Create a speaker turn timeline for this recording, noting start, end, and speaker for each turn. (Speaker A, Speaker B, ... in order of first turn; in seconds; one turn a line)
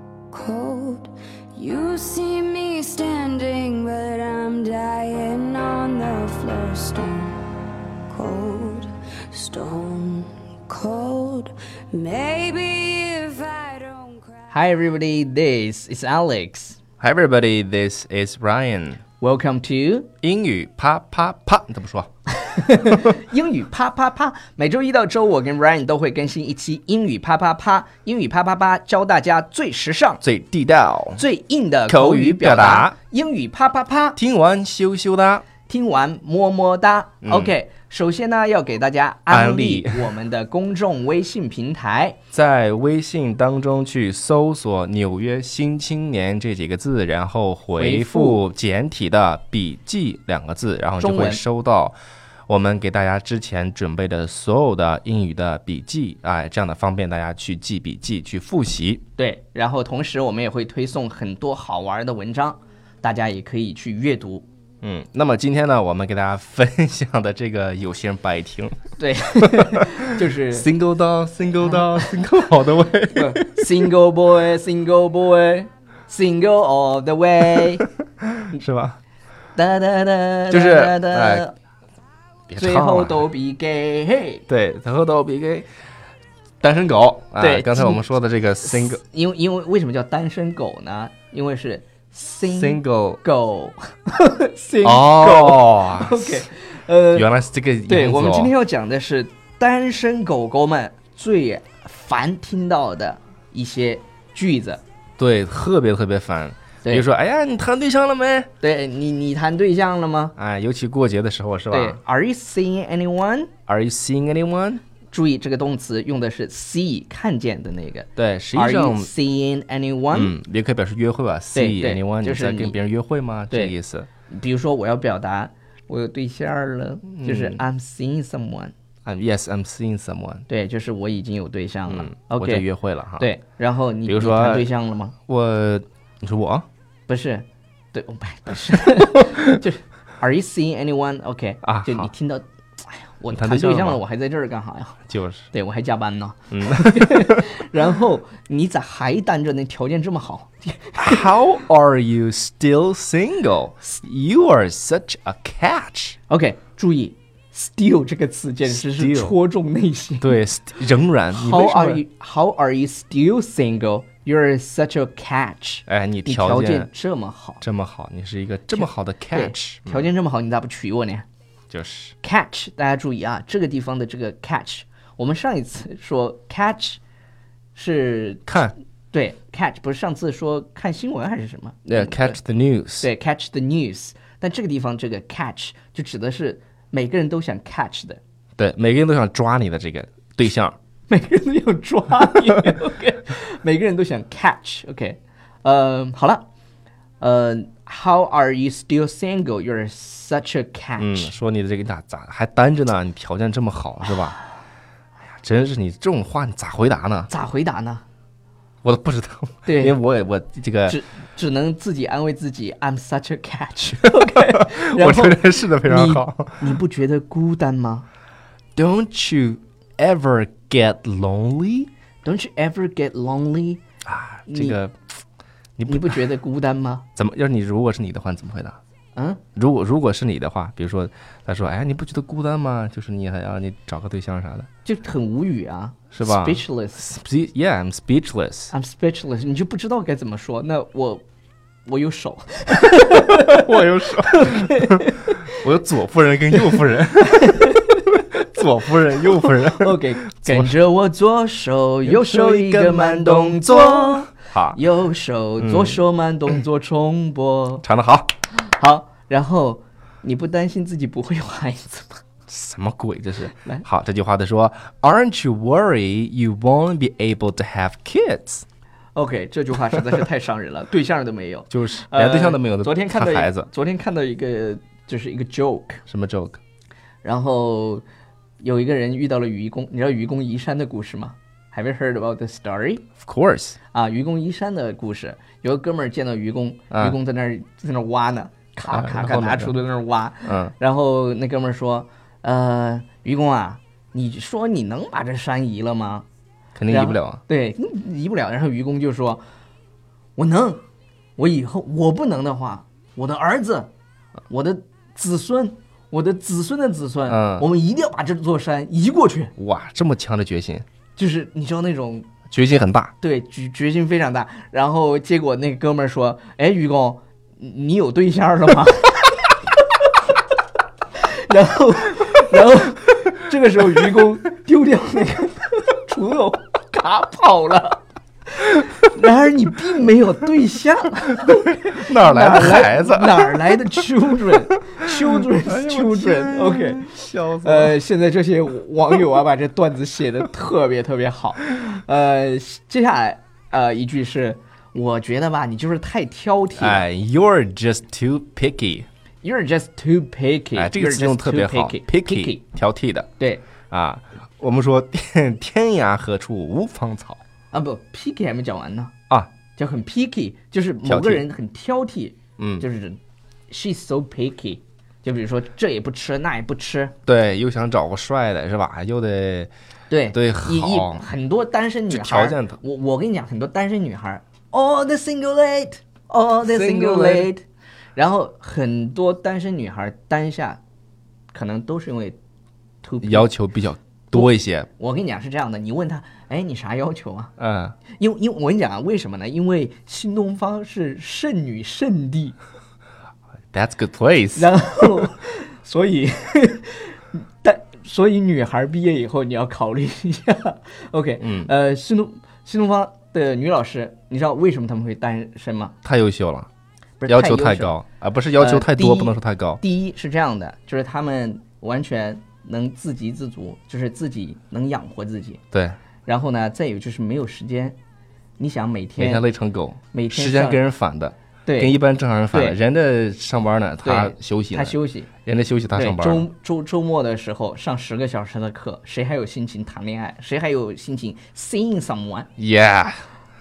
Speaker A: 0.3-7.4
Speaker A: 8.1-14.4
Speaker B: 14.5-16.8
Speaker C: 17.0-19.0
Speaker B: 19.2-20.1
Speaker C: 20.2-22.1
Speaker B: 22.4-30.2
Speaker C: 30.2-31.2
Speaker B: 31.1-34.2
Speaker C: 31.9-33.0
Speaker C: 34.2-35.4
Speaker B: 35.6-42.2
Speaker C: 37.2-37.5
Speaker C: 39.3-40.1
Speaker C: 42.3-51.9
Speaker B: 47.8-48.4
Speaker B: 51.0-51.4
Speaker C: 52.5-59.0
Speaker B: 59.2-64.4
Speaker C: 64.8-68.8
Speaker B: 69.0-70.7
Speaker C: 69.7-73.7
Speaker B: 71.7-72.2
Speaker B: 73.1-77.9
Speaker C: 78.2-79.0
Speaker B: 79.5-81.5
Speaker C: 80.5-81.5
Speaker C: 82.5-83.2
Speaker B: 82.6-84.4
Speaker C: 84.5-85.7
Speaker C: 86.6-89.0
Speaker B: 87.4-88.0
Speaker B: 88.6-97.3
Speaker C: 92.5-93.2
Speaker C: 94.8-96.5
Speaker C: 97.1-98.5
Speaker B: 97.9-104.8
Speaker C: 105.2-108.5
Speaker B: 108.6-110.3
Speaker C: 110.4-112.0
Speaker B: 111.7-113.5
Speaker C: 113.7-114.8
Speaker B: 115.1-120.3
Speaker C: 118.2-119.1
Speaker C: 120.1-124.1
Speaker B: 121.5-122.8
Speaker B: 124.3-128.7
Speaker C: 127.1-127.6
Speaker C: 129.0-130.4
Speaker B: 130.5-135.2
Speaker C: 131.9-133.3
Speaker C: 134.1-134.7
Speaker C: 135.3-136.7
Speaker B: 137.1-151.3
Speaker C: 141.6-142.1
Speaker C: 143.3-144.0
Speaker C: 145.1-145.5
Speaker C: 146.5-147.5
Speaker C: 151.0-156.2
Speaker B: 156.3-160.4
Speaker C: 158.7-159.3
Speaker C: 160.2-162.0
Speaker B: 161.3-167.6
Speaker C: 165.9-166.9
Speaker C: 167.6-170.1
Speaker B: 168.7-171.2
Speaker C: 171.7-172.1
Speaker B: 172.2-177.0
Speaker B: 177.7-178.5
Speaker C: 178.5-178.7
Speaker B: 179.1-182.4
Speaker C: 181.8-183.1
Speaker B: 183.0-188.2
Speaker C: 188.6-190.8
Speaker B: 191.1-196.4
Speaker B: 197.2-201.3
Speaker C: 201.0-204.4
Speaker C: 205.3-207.3
Speaker B: 207.3-208.0
Speaker C: 208.8-211.0
Speaker B: 209.7-210.0
Speaker B: 210.9-218.1
Speaker C: 214.2-216.8
Speaker C: 218.8-221.9
Speaker B: 222.2-223.8
Speaker C: 224.0-224.9
Speaker B: 224.5-224.8
Speaker C: 225.8-226.2
Speaker B: 225.9-227.1
Speaker C: 227.2-228.8
Speaker B: 229.1-229.4
Speaker C: 229.6-234.7
Speaker B: 234.8-237.1
Speaker C: 236.1-238.7
Speaker B: 238.7-241.2
Speaker B: 241.8-245.6
Speaker C: 243.1-250.7
Speaker B: 247.3-248.0
Speaker B: 249.5-257.8
Speaker C: 252.0-254.8
Speaker C: 255.6-256.0
Speaker C: 257.8-258.3
Speaker B: 258.5-262.2
Speaker C: 262.5-268.6
Speaker B: 269.1-276.0
Speaker C: 271.7-273.7
Speaker C: 276.1-276.6
Speaker B: 277.2-278.0
Speaker B: 278.6-283.1
Speaker C: 283.2-283.8
Speaker B: 283.9-296.2
Speaker C: 286.9-287.1
Speaker C: 288.9-289.8
Speaker C: 290.4-290.7
Speaker C: 296.8-297.4
Speaker B: 296.9-299.4
Speaker B: 300.4-300.8
Speaker B: 301.4-303.9
Speaker B: 304.5-309.5
Speaker C: 307.3-307.7
Speaker C: 309.6-310.8
Speaker B: 311.1-312.3
Speaker C: 312.5-313.1
Speaker B: 313.2-319.5
Speaker B: 321.2-337.1
Speaker C: 331.8-333.8
Speaker C: 335.3-338.0
Speaker B: 337.6-347.0
Speaker C: 346.8-349.1
Speaker B: 349.4-352.6
Speaker C: 350.7-353.3
Speaker B: 353.4-353.6
Speaker C: 353.9-357.4
Speaker B: 357.7-359.1
Speaker B: 359.7-367.1
Speaker C: 361.1-361.4
Speaker C: 362.6-362.8
Speaker C: 367.2-369.7
Speaker B: 370.1-377.6
Speaker C: 370.3-371.2
Speaker C: 372.1-372.8
Speaker C: 376.6-377.5
Speaker B: 378.1-380.8
Speaker B: 381.5-382.4
Speaker B: 383.0-383.5
Speaker C: 383.2-384.9
Speaker B: 384.3-387.5
Speaker C: 387.6-387.9
Speaker B: 388.1-392.6
Speaker C: 393.7-394.7
Speaker B: 394.5-405.9
Speaker C: 401.4-401.7
Speaker C: 406.0-406.7
Speaker B: 407.2-407.9
Speaker C: 407.3-409.8
Speaker B: 408.6-415.6
Speaker C: 415.7-416.0
Speaker B: 416.2-418.0
Speaker B: 418.6-419.4
Speaker C: 419.2-426.4
Speaker B: 420.1-420.8
Speaker B: 421.6-422.0
Speaker B: 422.5-422.8
Speaker B: 424.0-425.3
Speaker B: 425.9-432.5
Speaker C: 432.6-433.2